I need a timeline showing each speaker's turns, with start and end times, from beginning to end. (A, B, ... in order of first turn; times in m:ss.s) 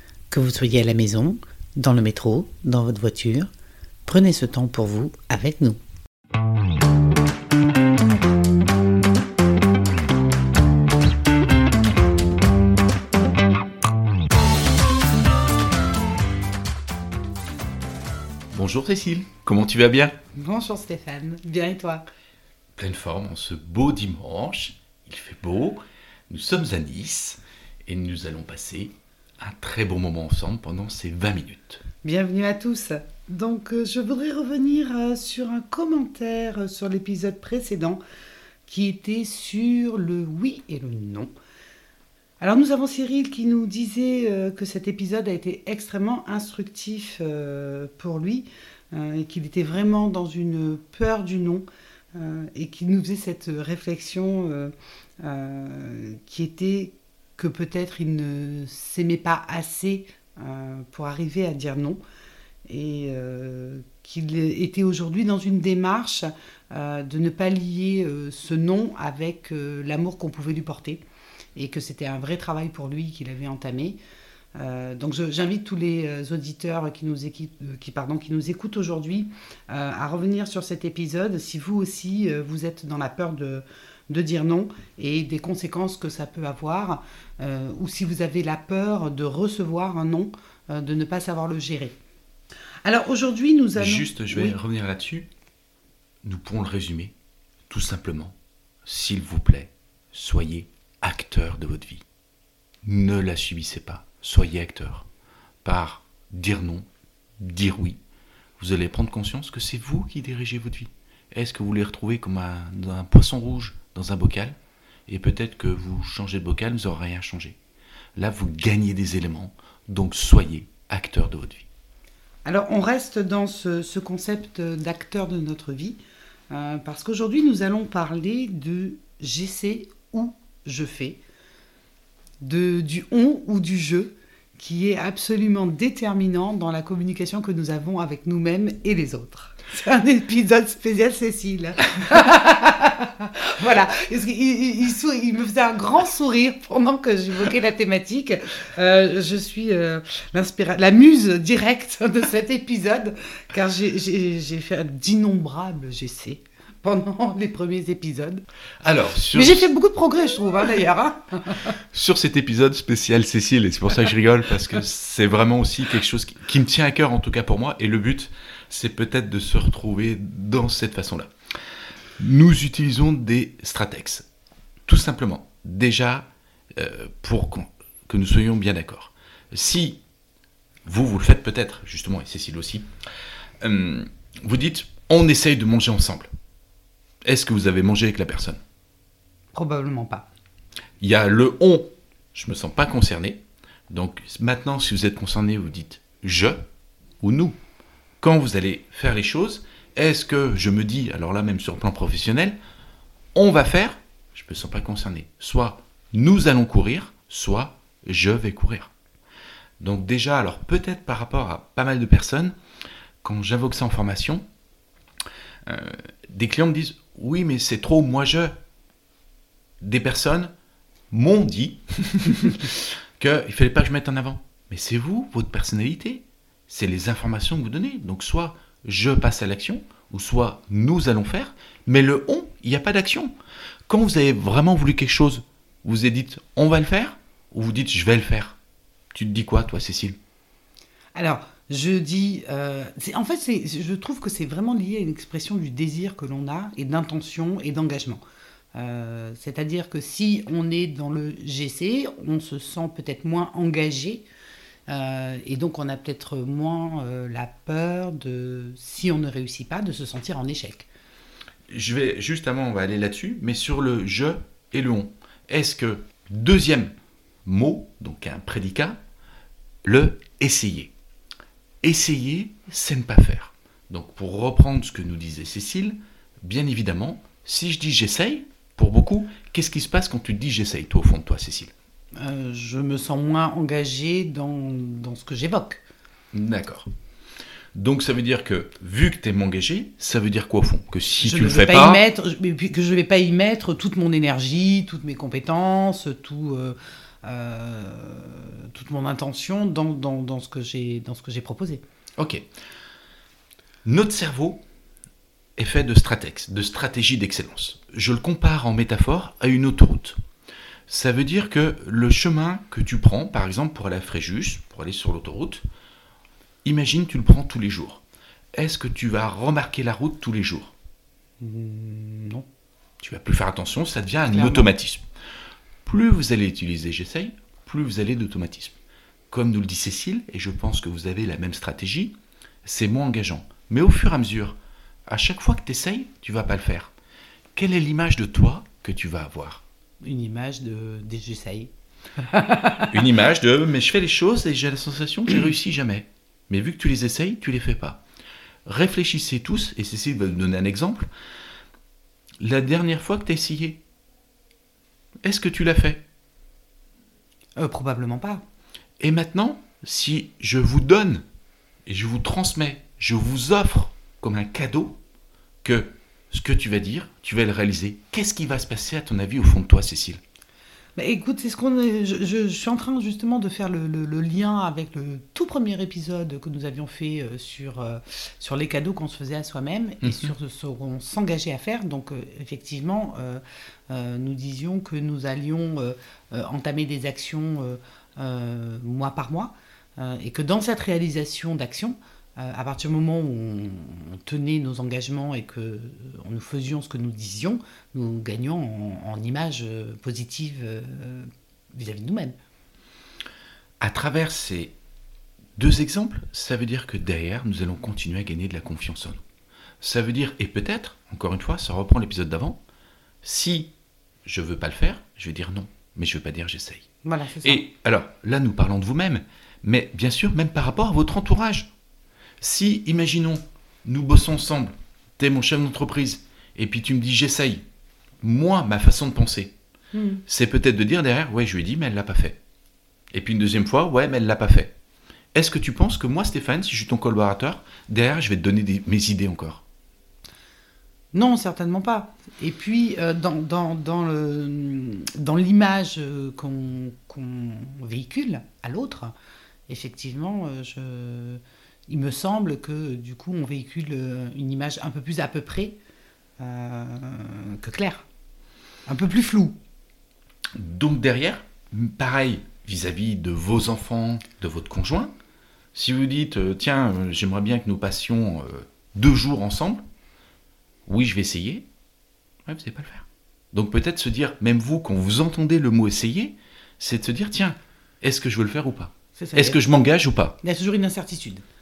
0:00.3-0:03.5 A
0:04.0-0:05.8 A
0:18.5-0:20.1 B
0:20.3-0:22.0 A
0:22.8-0:31.8 B
0:32.0-0:38.0 A
0:38.7-0:41.3 A
0:42.4-1:02.0 A
1:02.7-1:11.0 A
1:11.6-1:14.0 A
1:14.6-1:32.0 A
1:32.8-1:34.6 A
1:33.8-1:35.3 B
1:36.2-1:37.1 B
1:37.7-1:42.0 B
1:42.8-1:45.1 B
1:45.6-1:46.9 B
1:47.4-1:48.0 B
1:48.6-1:54.6 B
1:55.1-1:57.6 B
1:58.2-2:01.6 B
2:02.4-2:06.0 A
2:06.5-2:11.2 A
2:12.4-2:38.4 A
2:38.8-2:39.7 B
2:39.3-2:41.7 A
2:41.9-2:51.3 B
2:52.2-2:54.3 B
2:54.9-3:00.0 B
3:00.8-3:02.9 B
3:03.6-3:06.3 B
3:07.2-3:08.6 B
3:09.5-3:10.3 A
3:11.0-3:16.6 B
3:17.2-3:17.6 B
3:18.2-3:22.6 B
3:23.3-3:28.9 B
3:29.8-3:32.5 B
3:33.2-3:34.4 B
3:35.6-3:38.5 B
3:39.8-3:40.5 B
3:41.1-3:53.3 B
3:53.9-3:58.6 B
3:59.1-4:00.2 B
4:01.1-4:08.2 A
4:08.7-4:14.2 A
4:14.9-4:20.9 A
4:21.7-4:26.9 B
4:27.4-4:29.0 B
4:29.8-4:30.9 B
4:31.8-4:41.7 B
4:42.2-4:45.8 A
4:46.3-4:46.9 B
4:47.7-4:52.0 B
4:51.2-5:01.8 A
5:03.8-5:04.6 B
5:05.6-5:10.2 B
5:10.9-5:15.6 B
5:16.6-5:18.0 B
5:18.5-5:20.7 B
5:21.4-5:22.4 A
5:23.0-5:25.0 B
5:24.3-5:24.7 A
5:25.8-5:28.7 B
5:29.3-5:32.1 B
5:32.6-5:34.5 B
5:35.1-5:36.9 B
5:37.5-5:39.6 B
5:40.0-5:42.9 A
5:42.9-5:48.0 B
5:48.6-5:51.1 B
5:52.4-5:53.8 B
5:55.2-5:56.0 B
5:57.6-5:58.4 A
5:59.0-6:01.2 B
6:01.9-6:05.0 B
6:05.6-6:10.2 B
6:11.0-6:42.3 A
6:20.0-6:20.3 B
6:43.8-6:44.7 B
6:45.6-6:49.2 B
6:49.8-6:52.6 B
6:53.2-6:53.7 B
6:54.2-6:56.8 B
6:57.0-6:57.6 A
6:57.4-7:01.7 B
7:02.4-7:07.6 B
7:08.2-7:09.5 B
7:09.9-7:10.2 A
7:10.3-7:12.4 B
7:13.1-7:14.7 B
7:15.3-7:19.6 B
7:21.1-7:29.1 A
7:29.7-7:35.8 A
7:36.4-7:38.0 A
7:38.9-7:39.6 A
7:40.6-7:45.1 B
7:45.7-7:49.8 B
7:50.9-7:51.6 B
7:52.5-8:00.4 B
7:59.2-7:59.6 A
8:00.4-8:01.4 A